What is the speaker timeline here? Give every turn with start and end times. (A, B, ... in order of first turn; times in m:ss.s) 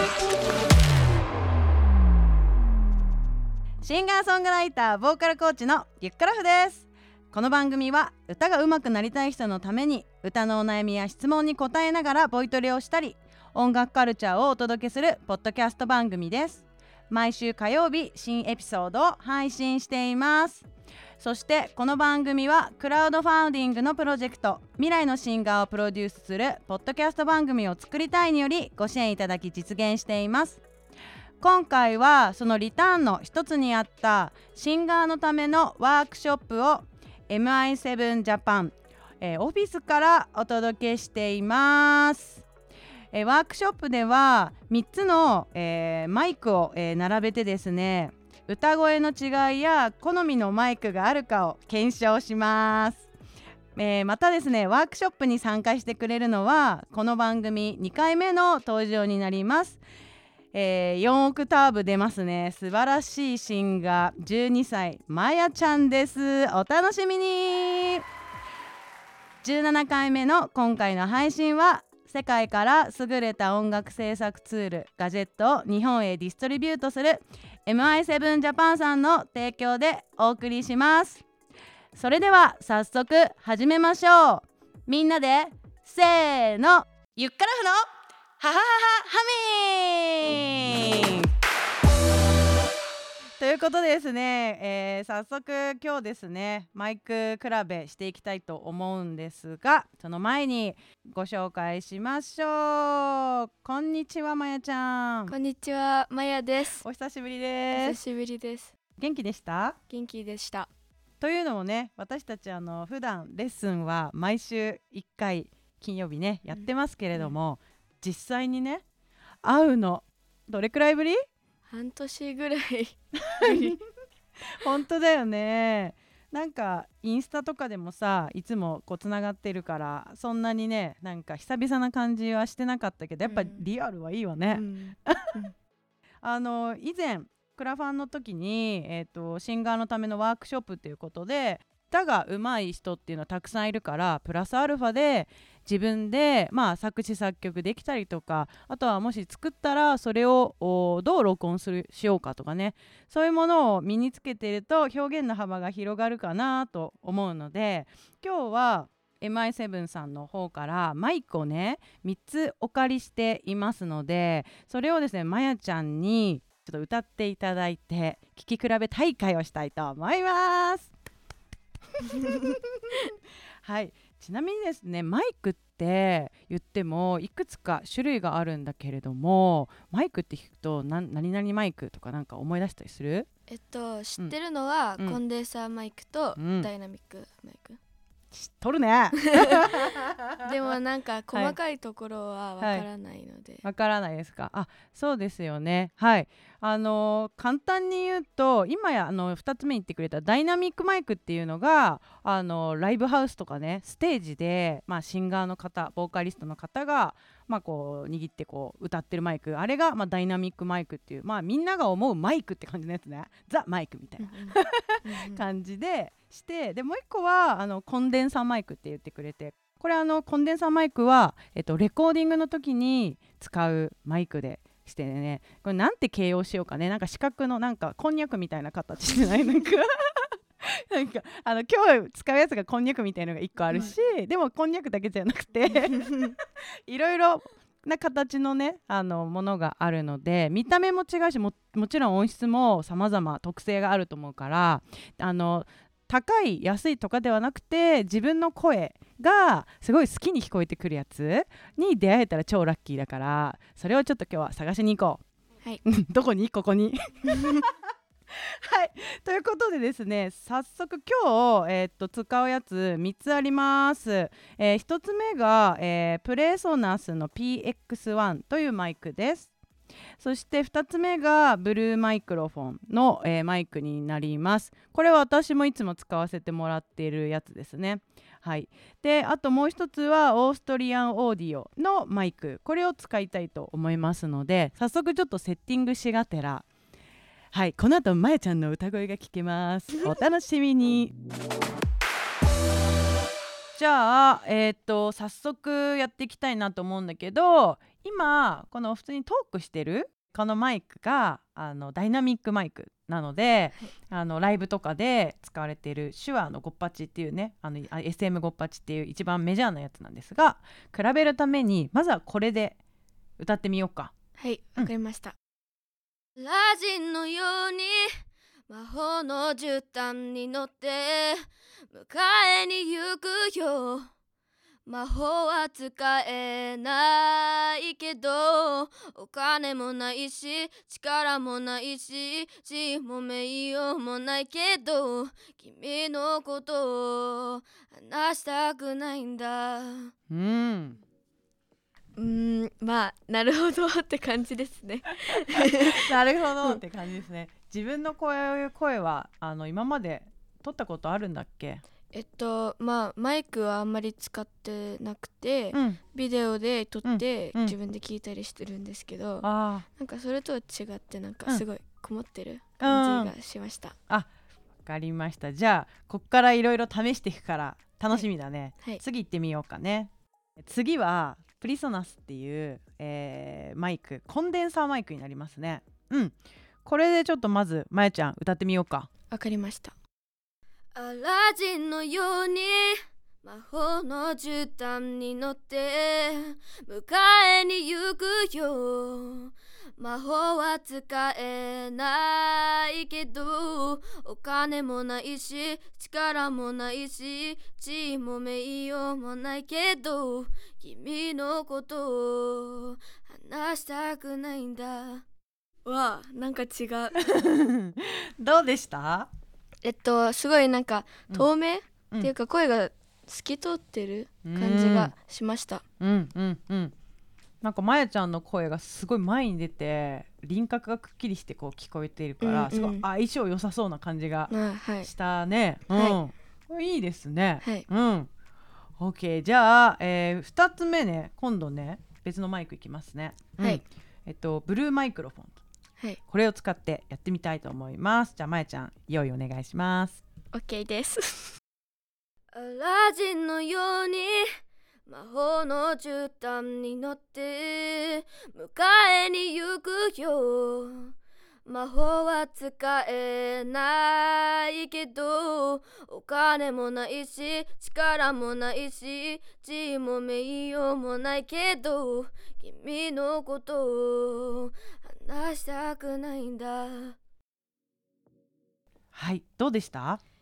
0:03.8-0:20.6 A
0:21.2-0:30.6 A
0:31.4-0:42.4 A
0:43.1-0:53.1 A
0:53.8-0:59.8 A
1:00.5-1:08.0 A
1:09.4-1:21.2 A
1:21.9-1:27.9 A
1:28.4-1:31.3 A
1:33.4-1:45.3 A
1:45.3-1:46.8 B
1:46.8-1:48.0 A
1:47.7-1:48.7 B
1:49.0-1:49.8 A
1:49.9-1:50.7 B
1:51.2-1:58.8 A
1:56.6-1:57.4 B
1:59.4-2:01.2 A
2:01.7-2:03.8 B
2:03.2-2:03.8 A
2:04.5-2:15.3 A
2:13.2-2:13.6 B
2:14.5-2:15.5 B
2:16.2-2:50.9 A
2:52.0-3:03.3 A
3:03.5-3:07.8 B
3:06.4-3:06.7 A
3:08.3-3:10.4 A
3:09.2-3:13.6 B
3:12.6-3:12.8 A
3:13.6-4:15.2 A
3:34.2-3:35.4 B
3:55.9-3:56.3 B
4:15.8-4:17.7 A
4:17.3-4:17.6 B
4:18.3-4:29.5 A
4:30.2-4:46.6 A
4:47.5-4:51.1 A
4:53.8-5:12.8 A
5:13.4-5:14.1 A
5:14.4-5:15.3 B
5:16.4-5:24.1 B
5:24.8-5:40.1 B
5:40.3-5:41.0 A
5:42.2-5:46.1 B
5:45.7-5:51.8 A
5:52.1-5:59.4 B
5:55.7-5:56.0 A
5:57.0-5:57.7 A
5:59.4-5:59.8 A
6:00.0-6:04.0 B
6:02.8-6:03.3 A
6:04.8-6:10.1 A
6:10.6-6:19.1 A
6:19.3-6:19.9 B
6:20.9-6:45.2 B
6:45.8-6:47.2 B
6:47.2-6:49.3 A
6:49.8-6:55.8 B
6:54.4-6:55.1 A
6:56.0-6:56.9 A
6:57.6-7:08.3 A
7:02.4-7:03.0 B
7:04.5-7:05.1 B
7:05.9-7:06.2 B
7:09.0-7:15.6 A
7:16.3-7:20.2 A
7:20.5-7:21.6 B
7:22.5-7:24.5 B
7:25.0-7:47.2 B
7:49.1-7:50.2 A